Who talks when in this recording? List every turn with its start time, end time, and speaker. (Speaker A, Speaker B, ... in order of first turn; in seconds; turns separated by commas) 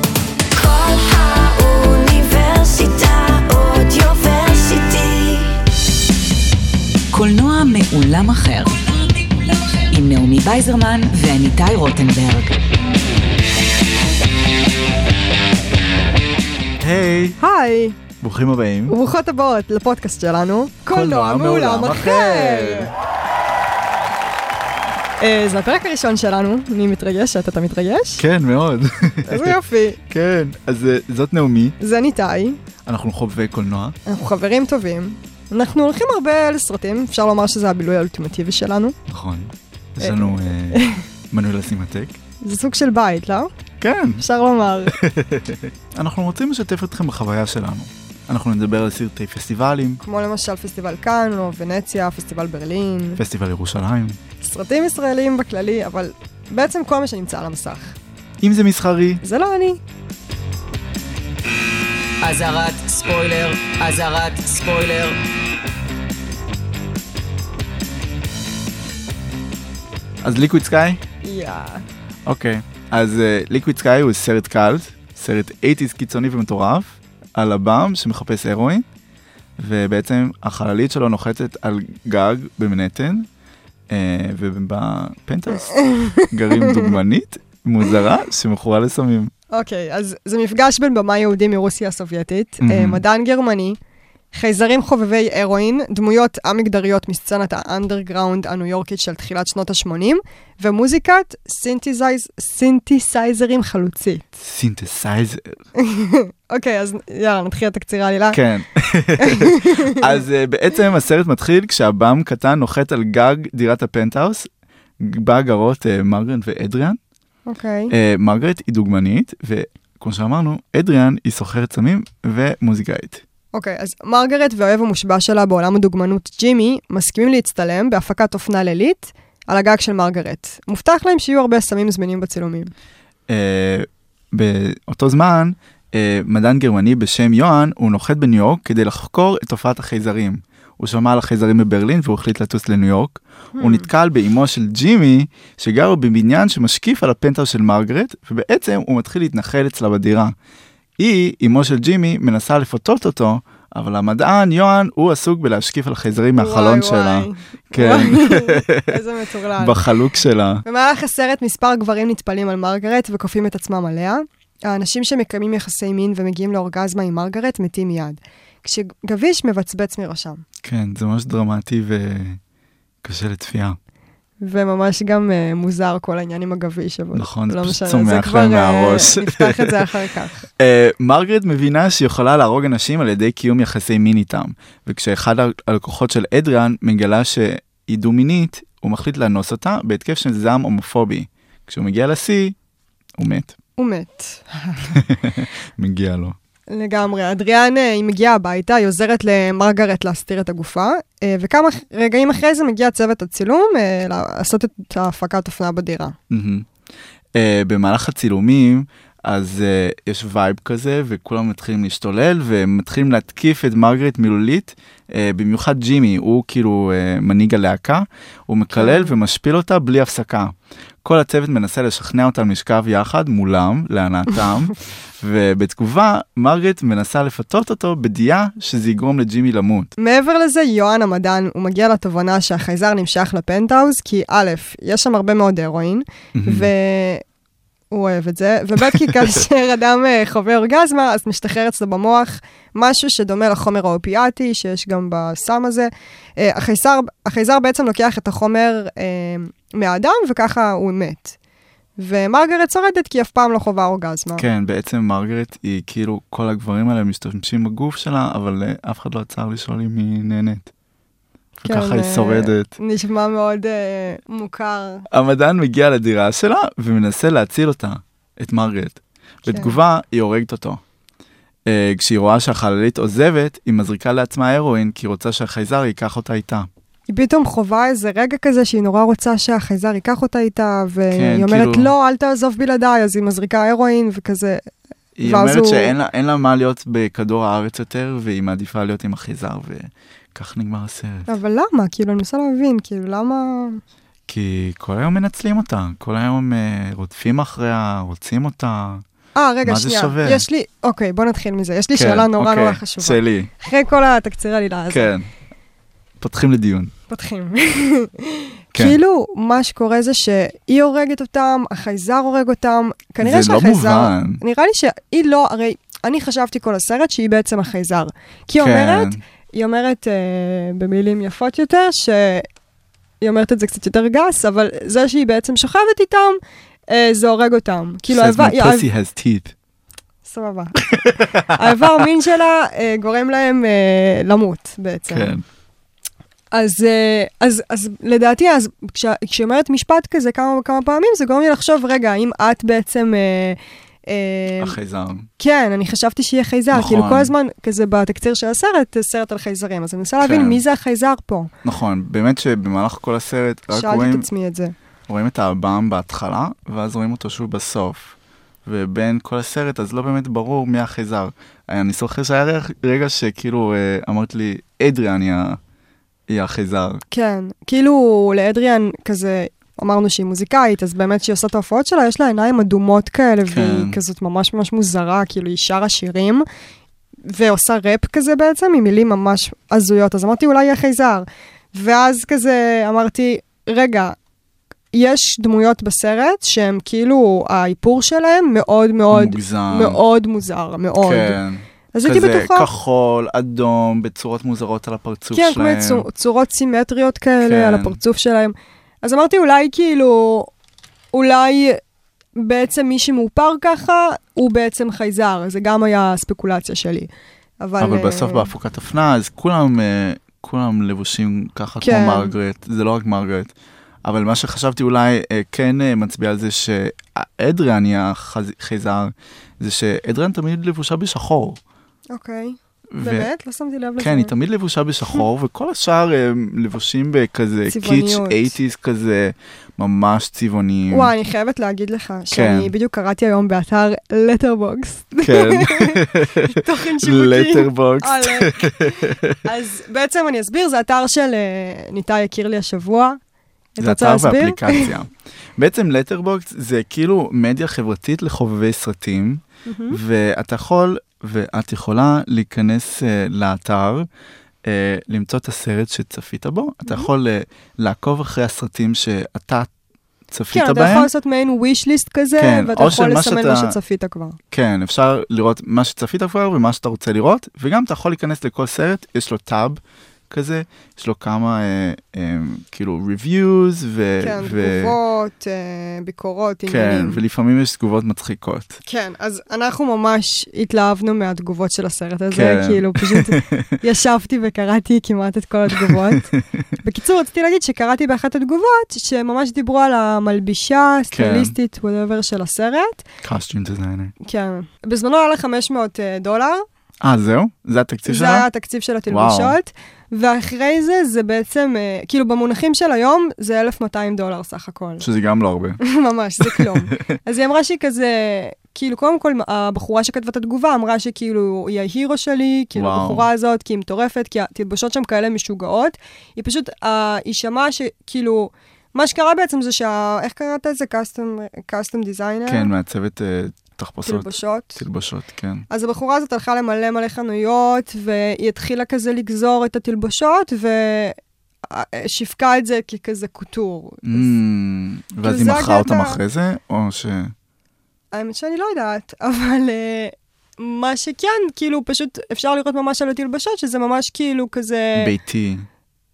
Speaker A: 0.5-5.6, Speaker A: 7.1-8.8, Speaker A: 9.8-12.6, Speaker B: 16.8-17.4, Speaker C: 17.4-18.0, Speaker B: 18.2-19.0, Speaker C: 18.9-22.9, Speaker B: 20.9-22.9, Speaker C: 25.2-28.2, Speaker B: 28.2-31.8, Speaker C: 29.3-30.0, Speaker C: 31.8-32.6, Speaker B: 32.9-34.0, Speaker C: 34.0-39.0, Speaker B: 39.1-42.2, Speaker C: 40.0-41.0, Speaker C: 42.4-43.5, Speaker B: 43.8-44.2, Speaker C: 44.2-45.0, Speaker B: 44.9-50.0, Speaker C: 50.0-53.2, Speaker B: 53.2-54.2, Speaker C: 54.4-58.0, Speaker B: 58.4-59.2, Speaker C: 59.2-59.8, Speaker A: 62.2-65.2, Speaker B: 70.2-71.0, Speaker C: 71.2-71.8, Speaker B: 72.2-78.8, Speaker B: 79.6-83.3, Speaker B: 83.9-89.3, Speaker C: 85.7-86.9, Speaker C: 89.5-93.8, Speaker B: 92.6-93.0, Speaker C: 94.3-104.4, Speaker B: 104.4-105.6, Speaker C: 105.8-108.4, Speaker B: 108.3-117.0, Speaker C: 109.2-110.2, Speaker C: 117.5-117.9, Speaker B: 117.9-123.2, Speaker C: 123.5-132.7, Speaker B: 133.3-150.3, Speaker C: 143.6-143.9, Speaker B: 151.0-159.0, Speaker C: 156.3-159.8, Speaker B: 159.6-160.6, Speaker C: 160.7-170.4, Speaker B: 170.6-172.4, Speaker B: 173.0-173.8, Speaker C: 174.4-180.5, Speaker B: 177.1-179.8, Speaker B: 180.6-192.6, Speaker B: 193.2-193.5, Speaker C: 193.8-195.0, Speaker B: 194.9-196.4, Speaker C: 196.7-206.2, Speaker B: 206.3-206.7, Speaker B: 207.3-229.9, Speaker C: 218.7-219.2, Speaker C: 230.0-237.2, Speaker B: 236.3-236.7, Speaker C: 237.9-251.3, Speaker C: 252.0-254.5, Speaker B: 254.4-260.7, Speaker C: 261.6-265.1, Speaker B: 261.6-262.7, Speaker B: 265.1-270.8, Speaker C: 269.5-269.8, Speaker B: 271.7-276.7, Speaker C: 277.1-284.6, Speaker B: 281.1-281.9, Speaker B: 285.1-291.3, Speaker C: 285.2-285.9, Speaker C: 291.3-293.8, Speaker B: 294.3-299.0, Speaker C: 299.4-305.1, Speaker B: 299.6-300.4, Speaker B: 301.9-303.5, Speaker B: 304.9-305.3, Speaker B: 306.2-306.9, Speaker C: 307.1-322.4, Speaker B: 313.2-314.4, Speaker B: 318.6-319.2, Speaker C: 323.2-328.9, Speaker B: 328.1-329.5, Speaker C: 330.2-335.4, Speaker B: 330.8-332.1, Speaker B: 335.1-335.4, Speaker C: 336.5-344.8, Speaker B: 344.6-345.3, Speaker C: 345.4-351.5, Speaker B: 346.7-347.3, Speaker B: 350.2-350.6, Speaker B: 351.6-354.3, Speaker C: 353.7-354.7, Speaker B: 355.1-365.6, Speaker B: 366.3-367.0, Speaker C: 367.1-376.4, Speaker B: 373.5-374.0, Speaker C: 377.3-384.1, Speaker C: 384.9-391.4, Speaker B: 389.1-390.0, Speaker B: 391.0-396.1, Speaker C: 391.9-392.7, Speaker C: 395.3-400.5, Speaker B: 397.4-398.0, Speaker C: 401.1-401.8, Speaker C: 402.4-407.1, Speaker C: 407.6-408.5, Speaker B: 407.8-413.5, Speaker C: 411.8-412.3, Speaker B: 414.0-421.6, Speaker C: 422.1-424.3, Speaker B: 422.9-423.3, Speaker B: 424.0-431.1, Speaker C: 427.7-428.5, Speaker C: 430.9-443.2, Speaker B: 432.3-432.7, Speaker B: 435.2-439.4, Speaker C: 443.8-444.9, Speaker B: 443.8-454.1, Speaker C: 449.6-450.0, Speaker B: 454.6-459.7, Speaker B: 460.3-461.1, Speaker C: 460.5-464.4, Speaker B: 462.4-463.8, Speaker B: 464.5-475.0, Speaker C: 474.2-477.2, Speaker B: 476.7-478.8, Speaker C: 478.9-486.3, Speaker B: 482.3-483.7, Speaker B: 485.7-486.7, Speaker C: 486.8-493.0, Speaker B: 491.1-491.5, Speaker B: 493.2-494.1, Speaker C: 494.2-496.6, Speaker B: 497.0-498.5, Speaker C: 498.1-505.1, Speaker B: 499.1-499.6, Speaker B: 505.0-505.8, Speaker C: 505.8-522.7, Speaker B: 506.4-507.0, Speaker B: 512.8-513.3, Speaker B: 522.5-525.7, Speaker C: 524.0-524.8, Speaker C: 525.7-534.3, Speaker B: 534.0-537.3, Speaker C: 535.2-536.2, Speaker C: 538.1-545.1, Speaker B: 545.0-545.7